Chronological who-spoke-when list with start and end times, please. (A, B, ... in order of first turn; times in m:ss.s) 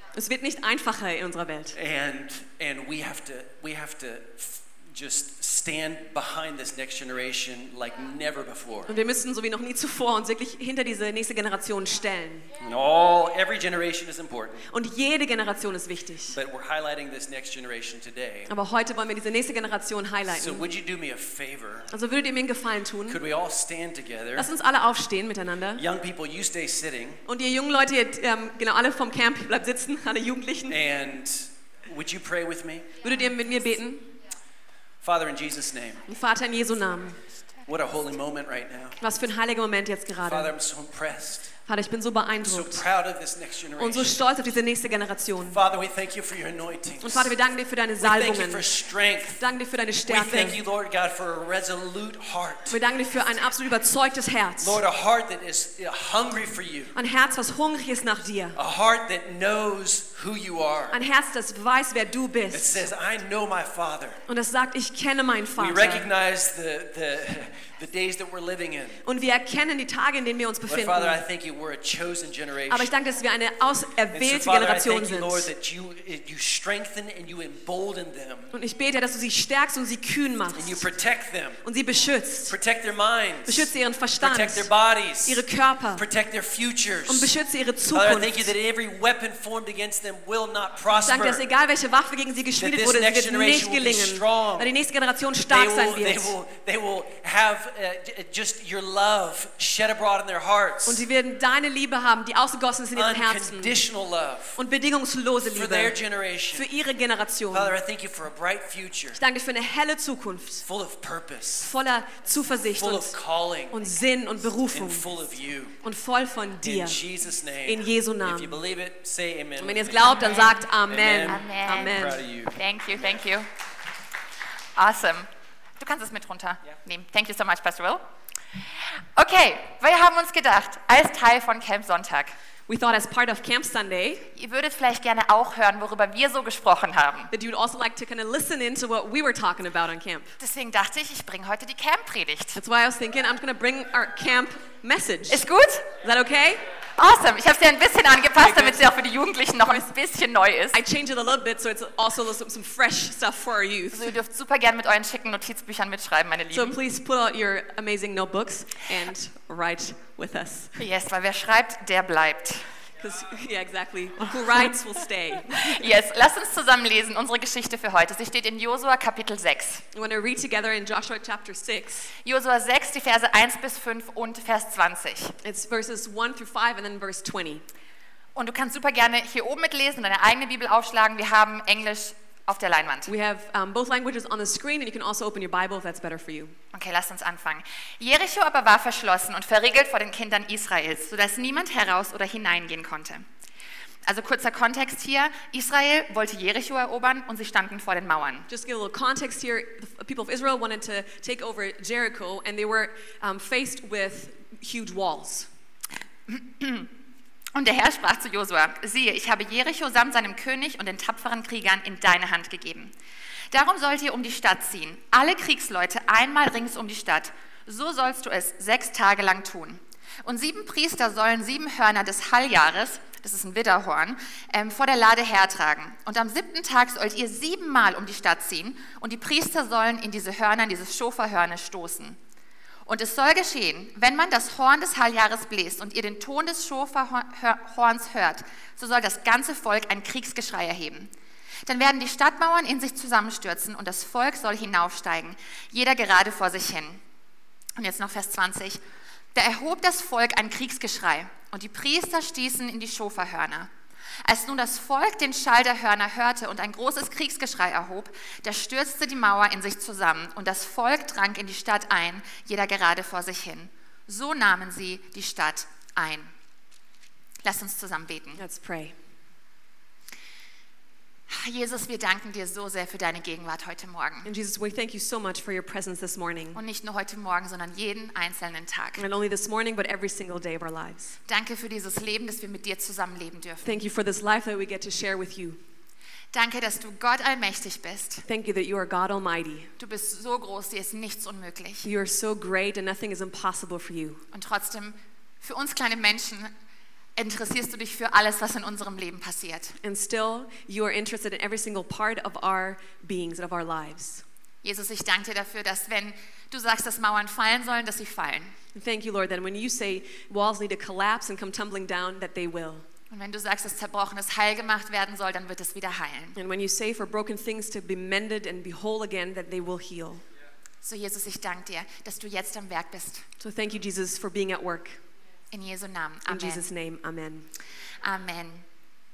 0:00.1-0:01.8 A
0:01.7-0:08.9 B
0:08.9-0:12.5 A
0:12.6-0:14.7 B
0:14.7-0:16.4 A
0:16.3-0:18.5 B
0:18.5-0:20.7 A
0:20.3-0:21.9 B
0:21.9-0:23.2 A
0:23.1-0:24.5 B
0:24.4-0:25.8 A
0:25.8-0:27.2 B
0:27.2-0:30.8 A
0:30.7-0:33.0 B
0:33.0-0:34.1 A
0:35.0-0:36.1 B
0:36.1-0:37.2 A
0:37.7-0:39.0 B
0:39.0-0:40.6 A
0:40.2-0:41.5 B
0:41.7-0:42.9 A
0:42.4-0:44.2 B
0:43.8-0:45.6 A
0:45.4-0:47.4 B
0:47.0-0:48.7 A
0:48.0-0:49.4 B
0:49.3-0:50.6 A
0:50.0-0:52.8 B
0:52.7-0:54.8 A
0:54.6-0:57.0 B
0:56.9-0:58.6 A
0:58.6-1:01.0 B
1:00.9-1:02.8 A
1:02.5-1:04.2 B
1:04.3-1:06.1 A
1:05.6-1:09.1 B
1:09.0-1:11.2 A
1:10.7-1:13.0 B
1:12.7-1:15.5 A
1:14.1-1:18.6 B
1:18.5-1:20.9 A
1:20.5-1:21.7 B
1:21.6-1:22.6 A
1:22.5-1:27.4 B
1:23.4-1:26.1 A
1:27.1-1:28.5 A
1:27.9-1:31.5 B
1:31.0-1:36.4 A
1:32.6-1:34.7 B
1:35.5-1:41.1 B
1:40.9-1:43.8 A
1:42.9-1:44.6 B
1:44.6-1:46.0 A
1:45.4-1:46.7 B
1:46.5-1:47.8 A
1:47.5-1:49.2 B
1:49.1-1:50.7 A
1:50.6-1:51.8 B
1:51.6-1:53.2 A
1:52.7-1:53.9 B
1:53.7-1:55.1 A
1:54.7-1:55.8 B
1:55.8-1:57.0 A
1:56.6-2:03.2 B
1:57.7-1:58.6 A
1:59.6-2:02.2 A
2:00.2-2:00.6 C
2:01.3-2:02.0 C
2:02.5-2:03.5 C
2:04.8-2:05.3 C
2:05.8-2:08.0 C
2:09.2-2:12.4 C
2:12.7-2:14.3 A
2:14.4-2:17.3 C
2:17.3-2:20.4 A
2:20.4-2:22.6 C
2:22.6-2:25.4 A
2:25.3-2:25.9 C
2:26.0-2:26.6 A
2:27.0-2:30.8 C
2:28.4-2:28.8 A
2:30.7-2:34.1 A
2:33.9-2:36.8 C
2:36.5-2:40.8 A
2:40.8-2:42.7 C
2:43.0-2:45.8 A
2:45.5-2:49.8 C
2:49.9-2:52.1 A
2:52.2-2:55.4 C
2:55.4-2:57.6 A
2:58.4-3:03.1 C
3:03.1-3:06.6 A
3:06.7-3:13.2 C
3:14.0-3:18.5 C
3:18.5-3:25.5 A
3:26.3-3:26.9 C
3:27.5-3:32.9 C
3:33.5-3:52.2 C
3:52.8-4:01.1 C
4:01.7-4:07.0 C
4:07.8-4:08.8 C
4:09.3-4:13.7 C
4:14.2-4:26.3 C
4:27.4-4:28.4 C
4:28.4-4:29.0 A
4:31.3-4:34.3 C
4:34.2-4:36.6 A
4:36.6-4:39.0 C
4:39.0-4:41.2 A
4:41.3-4:43.7 C
4:43.6-4:45.6 A
4:46.3-4:48.2 C
4:48.3-4:49.7 A
4:49.8-4:51.8 C
4:51.8-4:54.2 A
4:54.3-4:56.5 C
4:57.2-4:59.8 C
4:59.8-5:04.2 A
5:04.6-5:08.5 C
5:08.8-5:12.8 A
5:13.1-5:16.4 C
5:16.3-5:20.2 A
5:20.8-5:23.2 C
5:23.4-5:25.0 A
5:25.5-5:26.6 C
5:26.3-5:27.5 A
5:28.0-5:28.6 C